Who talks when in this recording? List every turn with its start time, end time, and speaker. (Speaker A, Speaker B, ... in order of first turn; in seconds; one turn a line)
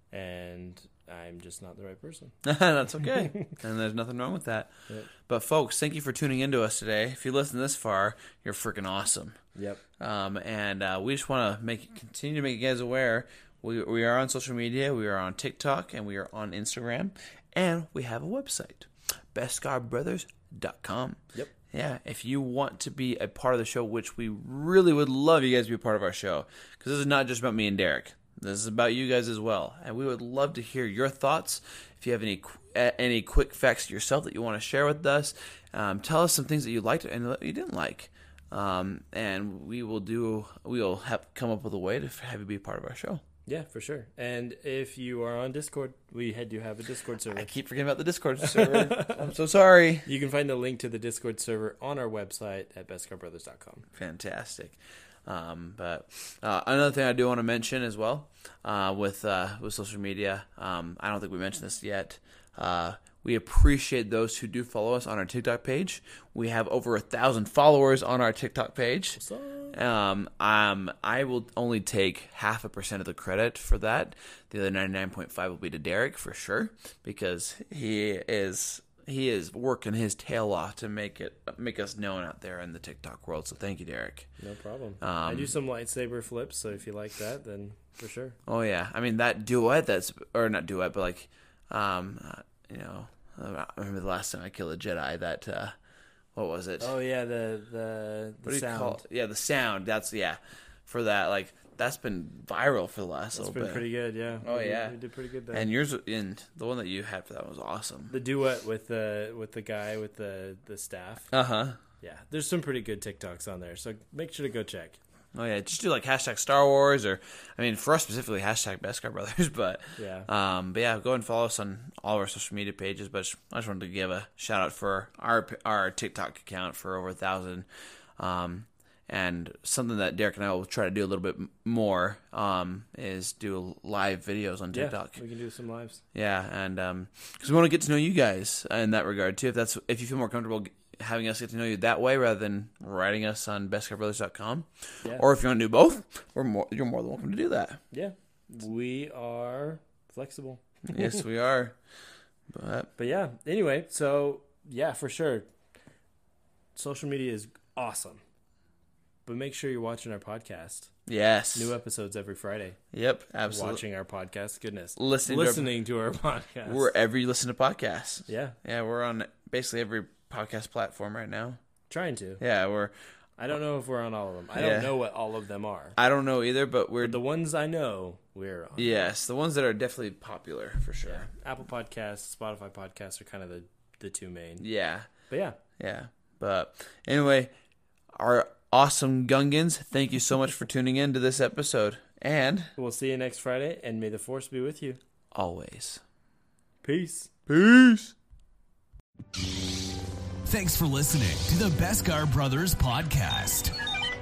Speaker A: 0.1-2.4
Speaker B: 2.4-9.4
Speaker A: 9.6-9.8
Speaker B: 10.0-43.2
Speaker A: 43.5-47.5
Speaker B: 47.3-50.1
Speaker A: 48.4-49.3
Speaker A: 50.1-53.9
Speaker B: 53.9-69.2
Speaker A: 69.2-69.8
Speaker B: 69.7-84.3
Speaker A: 84.4-88.4
Speaker B: 85.0-85.5
Speaker B: 88.5-95.8
Speaker B: 96.3-97.0
Speaker A: 96.8-99.0
Speaker B: 98.4-103.9
Speaker A: 103.3-105.7
Speaker B: 104.4-105.0
Speaker B: 105.5-108.1
Speaker A: 108.1-111.3
Speaker B: 111.3-111.8
Speaker A: 112.0-115.0
Speaker B: 115.3-127.7
Speaker A: 120.0-120.3
Speaker B: 128.2-135.2
Speaker A: 134.7-136.0
Speaker B: 136.1-147.8
Speaker A: 147.9-150.6
Speaker B: 150.8-151.8
Speaker B: 152.5-152.9
Speaker A: 153.0-155.5
Speaker A: 156.8-158.2
Speaker A: 159.3-160.9
Speaker B: 161.1-161.8
Speaker A: 161.5-162.8
Speaker B: 162.9-163.8
Speaker A: 163.5-166.9
Speaker B: 165.0-165.7
Speaker B: 166.7-171.6
Speaker A: 168.3-168.6
Speaker A: 171.9-172.4
Speaker B: 172.4-172.9
Speaker A: 173.4-176.0
Speaker B: 174.6-174.9
Speaker B: 176.0-177.2
Speaker A: 177.0-179.1
Speaker B: 178.8-181.3
Speaker A: 181.1-184.7
Speaker B: 184.6-185.1
Speaker A: 185.3-185.6
Speaker B: 185.8-187.5
Speaker B: 188.1-192.7
Speaker A: 192.8-195.0
Speaker B: 195.3-196.0
Speaker A: 196.8-197.4
Speaker B: 197.5-198.1
Speaker C: 200.4-203.8